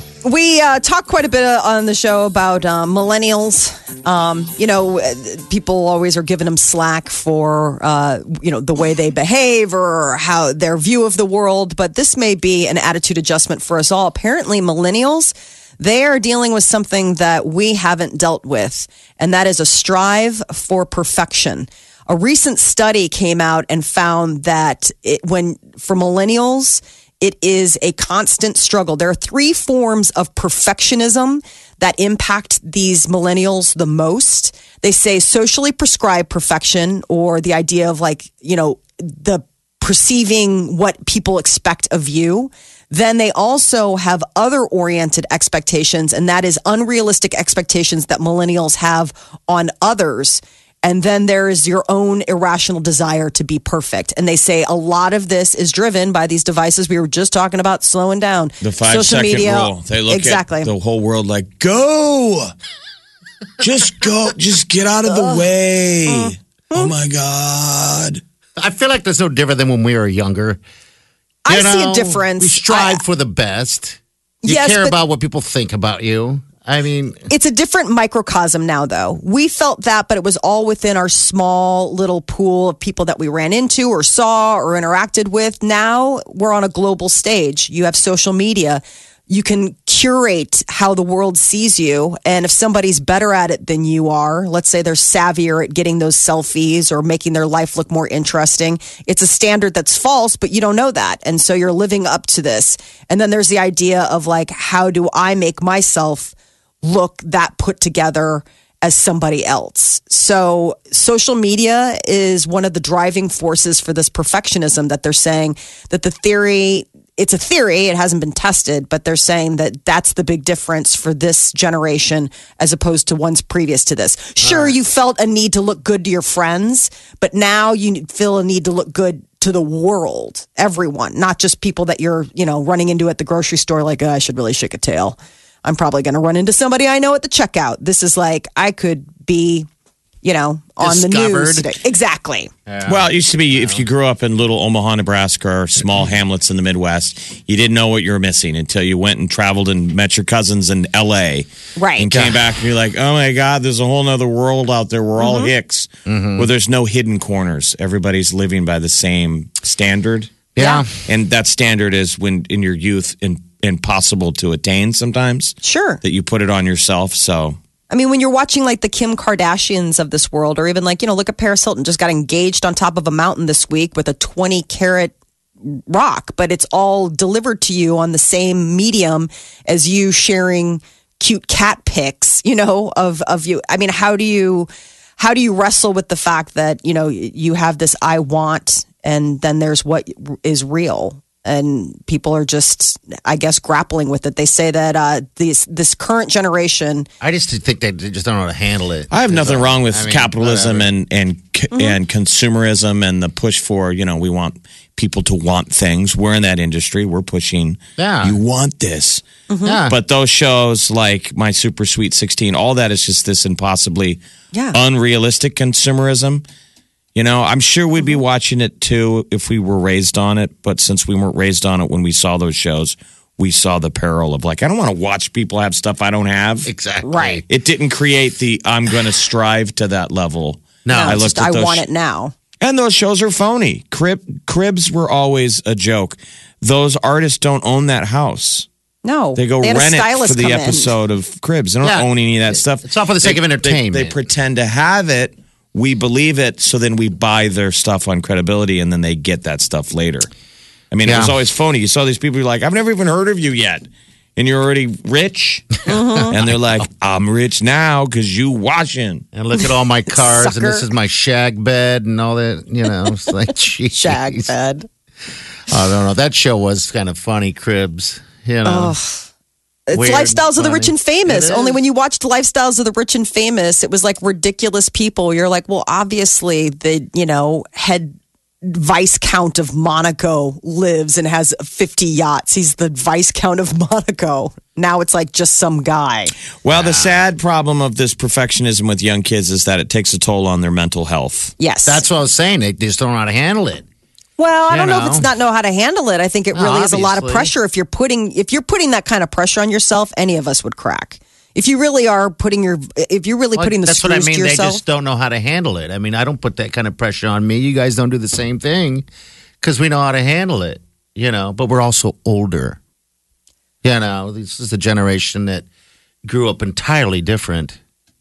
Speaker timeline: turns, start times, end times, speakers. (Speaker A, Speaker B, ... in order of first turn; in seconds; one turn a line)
Speaker A: 0.2-60.7
Speaker B: 58.6-62.5
Speaker B: 63.6-68.2
Speaker A: 65.0-65.5
Speaker A: 66.1-66.9
Speaker C: 68.6-70.6
Speaker A: 71.5-73.0
Speaker C: 71.5-77.3
Speaker A: 74.4-74.9
Speaker A: 77.3-139.7
Speaker C: 124.4-124.8
Speaker A: 140.2-142.5
Speaker C: 140.8-141.8
Speaker C: 142.7-143.8
Speaker B: 142.8-160.4
Speaker A: 151.8-152.1
Speaker C: 152.1-152.4
Speaker A: 155.2-155.5
Speaker C: 156.1-156.5
Speaker C: 160.5-160.9
Speaker A: 160.6-160.8
Speaker B: 161.0-167.6
Speaker A: 165.6-166.0
Speaker A: 167.9-197.1
Speaker C: 197.2-200.9
Speaker B: 199.1-209.2
Speaker A: 201.7-202.0
Speaker C: 208.0-208.4
Speaker A: 209.5-209.8
Speaker C: 209.6-209.9
Speaker B: 209.9-214.2
Speaker B: 214.7-216.4
Speaker B: 217.1-226.7
Speaker C: 226.7-227.4
Speaker A: 227.0-227.4
Speaker B: 227.5-231.8
Speaker C: 230.8-231.2
Speaker A: 230.9-232.3
Speaker B: 232.6-238.7
Speaker A: 239.0-240.9
Speaker B: 239.3-250.3
Speaker C: 241.8-244.1
Speaker B: 250.9-259.2
Speaker C: 251.0-251.3
Speaker A: 255.9-256.3
Speaker C: 256.3-256.8
Speaker C: 259.3-264.5
Speaker A: 259.6-260.8
Speaker A: 263.9-264.9
Speaker C: 265.7-268.9
Speaker A: 268.6-269.2
Speaker A: 269.9-286.3
Speaker C: 269.9-271.8
Speaker B: 286.6-291.5
Speaker C: 286.7-287.2
Speaker A: 291.6-292.0
Speaker C: 291.8-293.8
Speaker A: 294.4-304.8
Speaker C: 294.7-295.3
Speaker C: 296.5-297.5
Speaker C: 303.6-309.1
Speaker C: 309.6-312.8
Speaker C: 313.8-315.7
Speaker C: 316.2-317.8